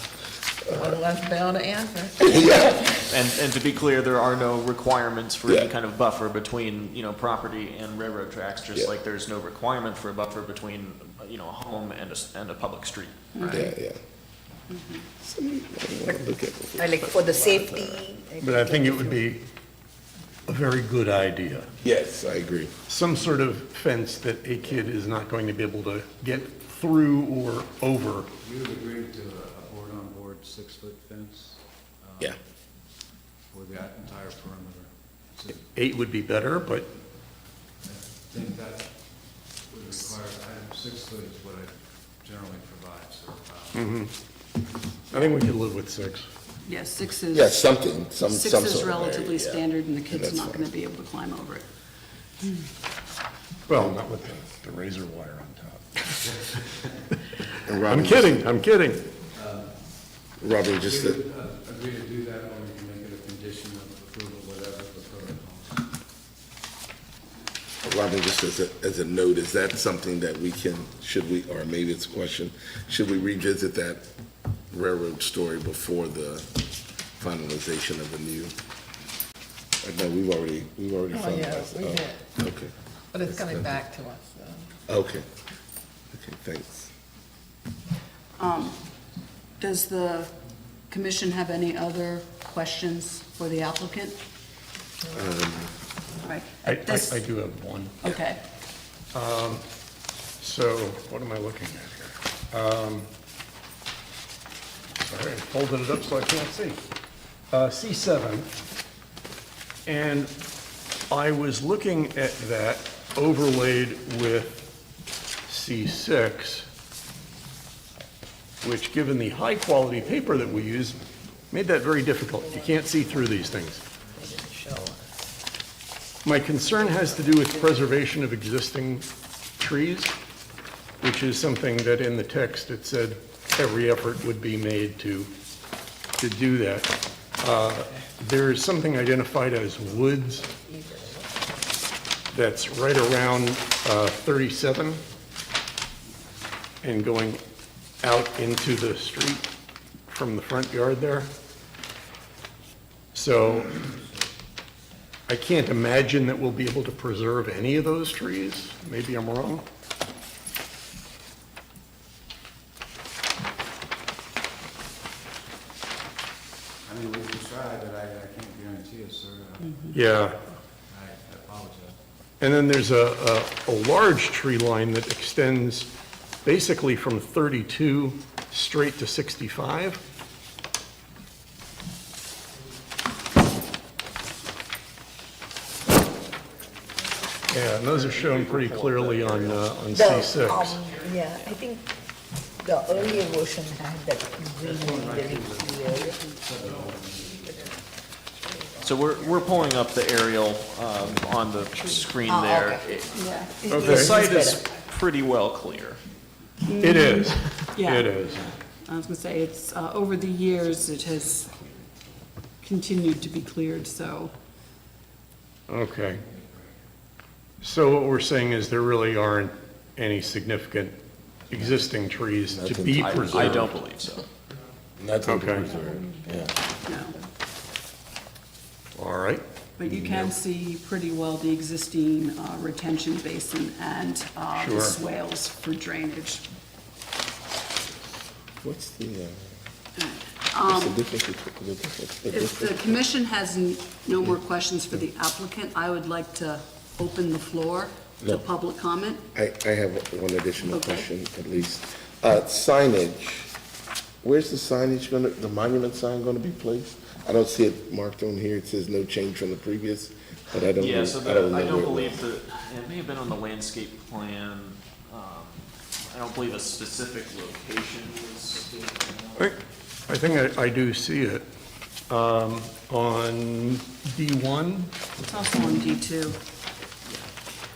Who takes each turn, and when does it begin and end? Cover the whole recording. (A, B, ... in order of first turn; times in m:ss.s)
0:00.6-0:01.0 A
0:00.7-0:03.0 B
0:02.2-0:03.0 A
0:03.0-0:13.7 C
0:05.4-0:05.7 A
0:13.3-0:13.6 D
0:13.4-0:14.0 A
0:14.7-0:15.0 D
0:15.2-0:17.0 A
0:16.8-0:19.3 E
0:17.0-0:18.0 C
0:18.4-0:19.4 F
0:20.5-0:21.7 F
0:21.8-0:22.7 A
0:22.9-0:28.3 F
0:28.4-0:32.4 G
0:33.5-0:35.7 G
0:35.7-0:36.9 F
0:37.8-0:38.9 G
0:39.7-0:44.0 G
0:43.7-0:44.1 F
0:45.1-0:45.4 D
0:45.1-0:46.2 F
0:46.6-0:47.6 D
0:47.3-0:50.7 A
0:48.3-0:51.7 D
0:53.7-0:56.3 F
0:57.7-0:58.5 A
0:57.8-0:59.1 F
0:59.3-0:59.7 G
1:00.4-1:01.2 A
1:00.8-1:05.8 G
1:07.8-1:14.0 A
1:14.7-1:16.5 A
1:17.2-1:18.5 A
1:19.8-1:23.8 A
1:21.1-1:22.2 B
1:23.1-1:24.7 B
1:24.9-1:25.2 A
1:26.1-1:26.9 A
1:28.4-1:28.8 D
1:29.6-1:30.3 D
1:30.9-1:34.2 D
1:35.0-1:35.7 A
1:36.2-1:37.2 D
1:36.6-1:38.2 F
1:38.0-1:38.4 D
1:39.1-1:39.6 F
1:40.4-1:43.1 F
1:45.0-1:46.8 F
1:47.5-1:48.5 F
1:49.8-1:50.3 F
1:51.1-1:54.6 F
1:55.5-1:56.7 F
1:58.6-2:01.0 F
2:01.5-2:03.8 F
2:04.1-2:05.0 B
2:06.2-2:09.1 F
2:09.6-2:10.1 F
2:11.0-2:15.3 F
2:16.2-2:20.5 F
2:20.5-2:21.3 B
2:22.3-2:25.0 F
2:26.8-2:27.4 F
2:28.0-2:29.5 F
2:30.1-2:31.3 F
2:33.1-2:33.8 F
2:35.3-2:39.6 F
2:46.8-2:49.9 G
2:49.9-2:50.4 F
2:50.9-2:52.0 G
2:52.4-2:55.9 F
2:56.4-3:00.0 F
3:07.5-3:10.8 F
3:07.9-3:11.6 C
3:09.9-3:11.9 E
3:12.6-3:16.3 E
3:14.6-3:17.7 G
3:18.8-3:26.0 C
3:22.2-3:22.8 E
3:23.1-3:24.0 D
3:23.6-3:24.6 E
3:23.7-3:24.2 F
3:26.6-3:28.2 D
3:26.8-3:28.5 F
3:28.8-3:31.5 D
3:32.6-3:34.3 D
3:35.7-3:36.2 F
3:37.6-3:41.0 F
3:41.5-3:41.9 G
3:41.5-3:43.7 F
3:42.5-3:43.7 A
3:42.9-3:44.2 C
3:45.0-3:46.5 A
3:45.2-3:45.8 F
3:46.8-3:47.2 D
3:48.9-3:49.4 F
3:49.8-3:56.4 D
3:54.5-3:55.0 F
3:58.6-3:59.5 A
4:00.0-4:01.0 D
4:00.6-4:03.0 A
4:02.3-4:09.2 D
4:09.3-4:13.5 A
4:10.7-4:11.1 D
4:14.2-4:22.2 A
4:20.7-4:29.6 C
4:30.1-4:31.4 F
4:32.1-4:34.9 F
4:35.2-4:36.4 D
4:37.0-4:37.3 C